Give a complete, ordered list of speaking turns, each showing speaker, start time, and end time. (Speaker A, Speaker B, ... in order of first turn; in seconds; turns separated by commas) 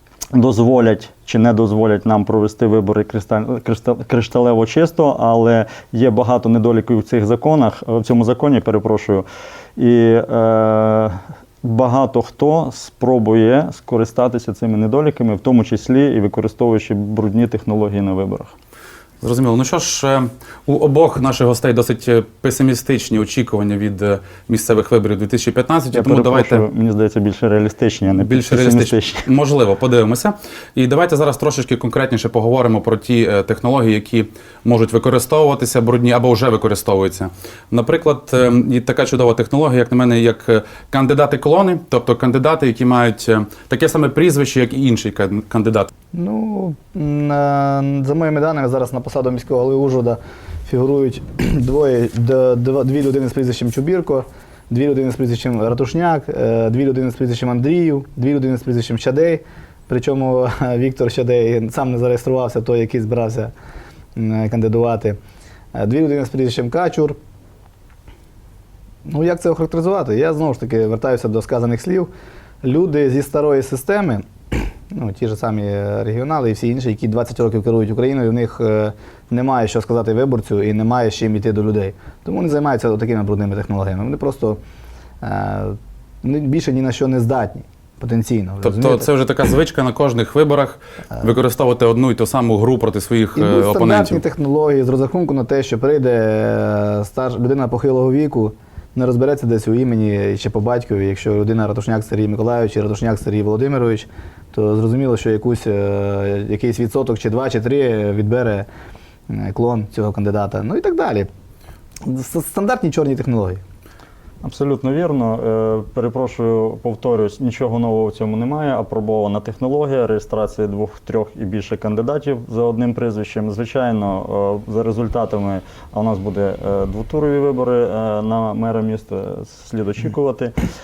Speaker A: 0.3-9.2, Speaker A: 9.8-18.5, Speaker B: 19.2-26.6, Speaker A: 25.9-29.2, Speaker B: 28.2-45.9, Speaker C: 46.1-63.5, Speaker C: 64.1-65.2, Speaker C: 65.7-67.2, Speaker C: 69.0-72.1, Speaker C: 72.6-84.6, Speaker C: 85.2-89.1, Speaker B: 88.6-94.2, Speaker C: 93.3-108.7, Speaker C: 109.3-111.3, Speaker C: 112.0-113.6, Speaker A: 114.4-130.5